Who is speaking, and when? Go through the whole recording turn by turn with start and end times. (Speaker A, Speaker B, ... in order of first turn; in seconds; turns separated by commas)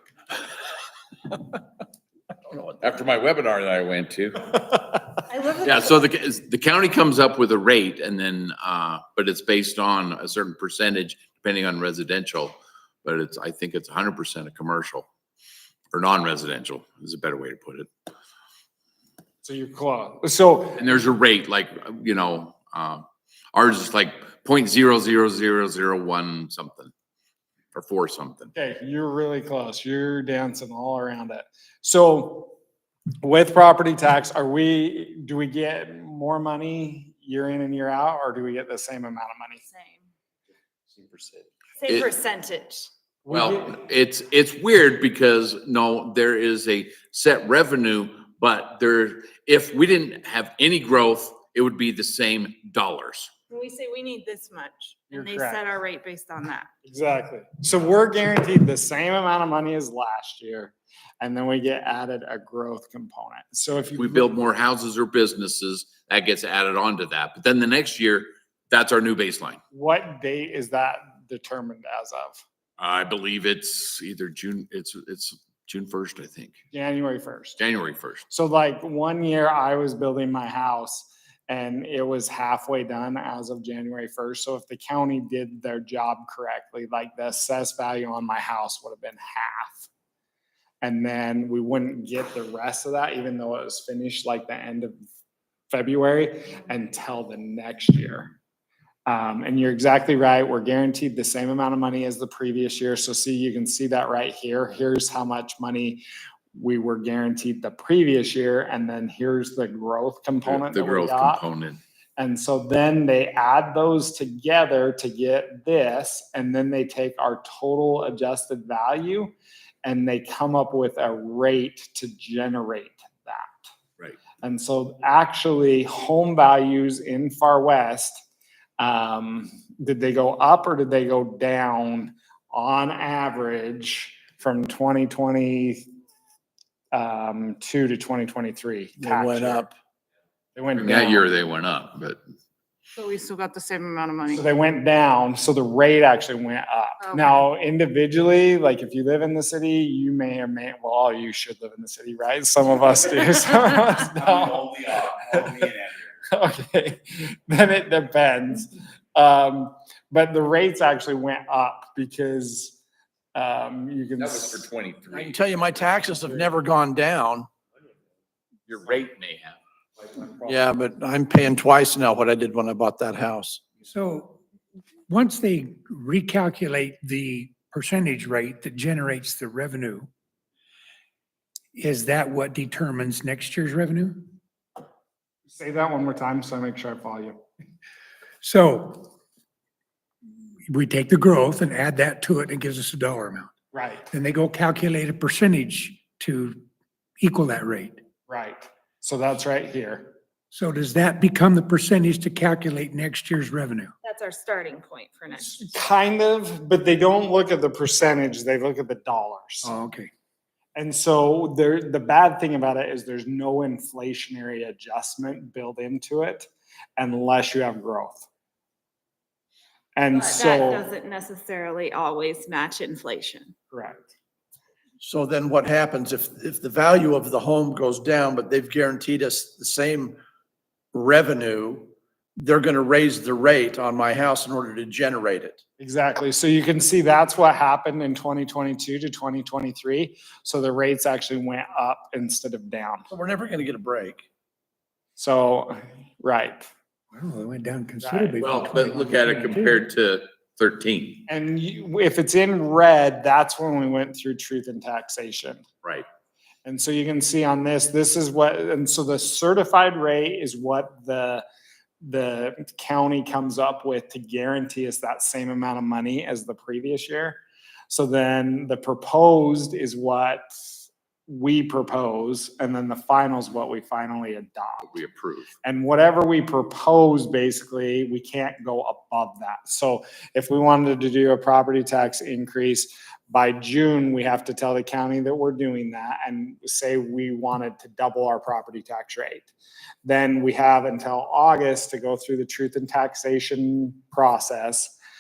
Speaker A: 2.8-5.0, Speaker B: 5.3-6.0, Speaker A: 5.6-15.1, Speaker A: 15.9-17.9, Speaker C: 19.4-20.8, Speaker A: 20.8-26.9, Speaker A: 27.7-28.5, Speaker C: 28.5-32.5, Speaker C: 33.2-39.6, Speaker B: 39.6-40.0, Speaker B: 41.8-42.9, Speaker C: 43.2-43.8, Speaker A: 43.3-53.3, Speaker B: 53.5-56.7, Speaker C: 55.1-55.6, Speaker C: 56.9-64.3, Speaker A: 64.0-69.6, Speaker C: 69.7-72.4, Speaker A: 72.8-76.6, Speaker C: 76.7-77.6, Speaker A: 77.6-78.3, Speaker C: 78.3-89.9, Speaker C: 90.8-95.0, Speaker C: 95.7-98.3, Speaker C: 99.1-106.0, Speaker C: 106.5-111.4, Speaker A: 110.5-111.8, Speaker C: 112.2-123.6, Speaker C: 124.4-128.2, Speaker C: 128.8-135.9, Speaker C: 136.9-139.7, Speaker D: 139.0-139.7, Speaker C: 140.6-141.3, Speaker A: 140.8-142.2, Speaker B: 143.0-144.5, Speaker C: 144.3-154.7, Speaker B: 147.0-147.3, Speaker A: 154.2-156.0, Speaker C: 155.3-155.7, Speaker C: 156.3-162.8, Speaker C: 163.3-164.6, Speaker A: 164.2-166.1, Speaker D: 165.1-167.5, Speaker A: 168.7-169.6, Speaker D: 170.5-173.7, Speaker E: 173.9-174.4, Speaker E: 175.1-180.1, Speaker E: 181.8-184.3, Speaker C: 185.5-187.4, Speaker E: 188.4-189.1, Speaker E: 190.7-193.5, Speaker C: 193.7-194.1, Speaker E: 194.1-196.6, Speaker E: 197.2-198.0, Speaker C: 198.3-200.1, Speaker E: 200.5-203.9, Speaker B: 204.0-205.7, Speaker C: 205.5-209.7, Speaker E: 209.6-210.1, Speaker C: 210.8-218.3, Speaker C: 220.0-220.8, Speaker B: 220.1-223.5, Speaker C: 223.7-224.1, Speaker D: 225.0-230.2, Speaker D: 230.9-235.6, Speaker C: 235.8-243.1, Speaker D: 243.1-244.2, Speaker C: 245.2-246.7, Speaker E: 247.1-249.8, Speaker C: 248.0-248.4, Speaker A: 248.4-251.2, Speaker C: 251.3-255.7, Speaker C: 256.6-261.4, Speaker C: 262.0-270.6, Speaker C: 271.3-274.9, Speaker A: 274.8-275.5, Speaker C: 275.6-289.5, Speaker C: 290.0-294.9